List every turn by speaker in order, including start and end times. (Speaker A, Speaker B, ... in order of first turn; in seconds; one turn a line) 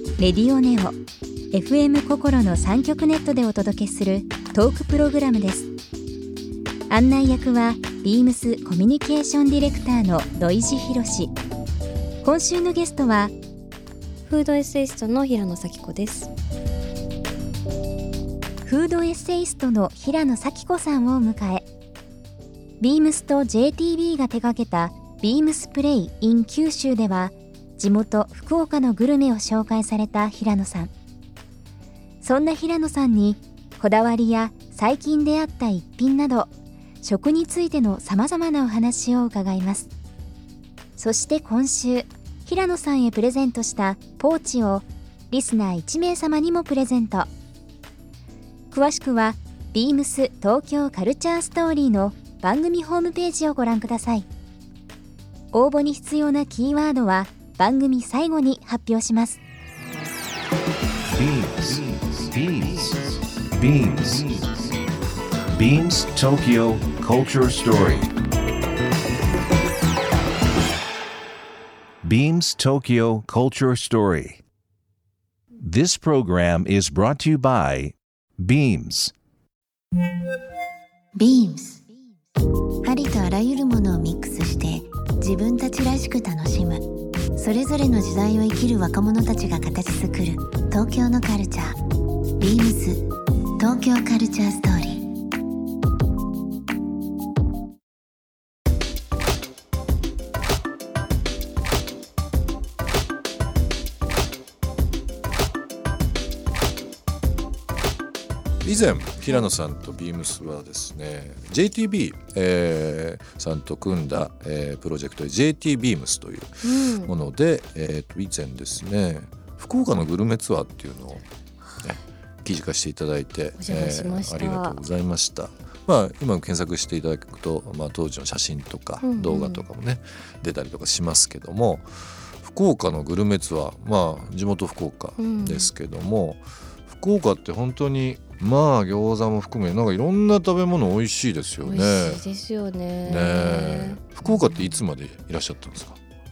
Speaker A: 0.2-0.9
Speaker A: 1.5-5.7
Speaker A: 6.9-11.3
Speaker A: 12.2-13.3
Speaker B: 14.2-16.3
Speaker A: 18.6-21.6
Speaker A: 22.8-30.9
Speaker A: 32.2-36.5
Speaker A: 37.0-39.9
Speaker A: 41.0-47.3
Speaker A: 48.7-54.3
Speaker A: 55.5-59.4
Speaker C: 61.1-64.5
Speaker C: 65.5-68.1
Speaker C: 72.0-74.4
Speaker C: 75.6-79.1
Speaker D: 81.2-81.8
Speaker D: 82.8-86.8
Speaker D: 87.4-91.8
Speaker D: 92.4-93.0
Speaker D: 93.6-95.0
Speaker E: 108.6-121.2
Speaker B: 109.2-109.5
Speaker B: 116.6-117.1
Speaker E: 121.8-142.2
Speaker B: 123.6-124.8
Speaker B: 129.0-129.7
Speaker B: 135.2-135.7
Speaker B: 141.6-144.8
Speaker E: 143.0-146.0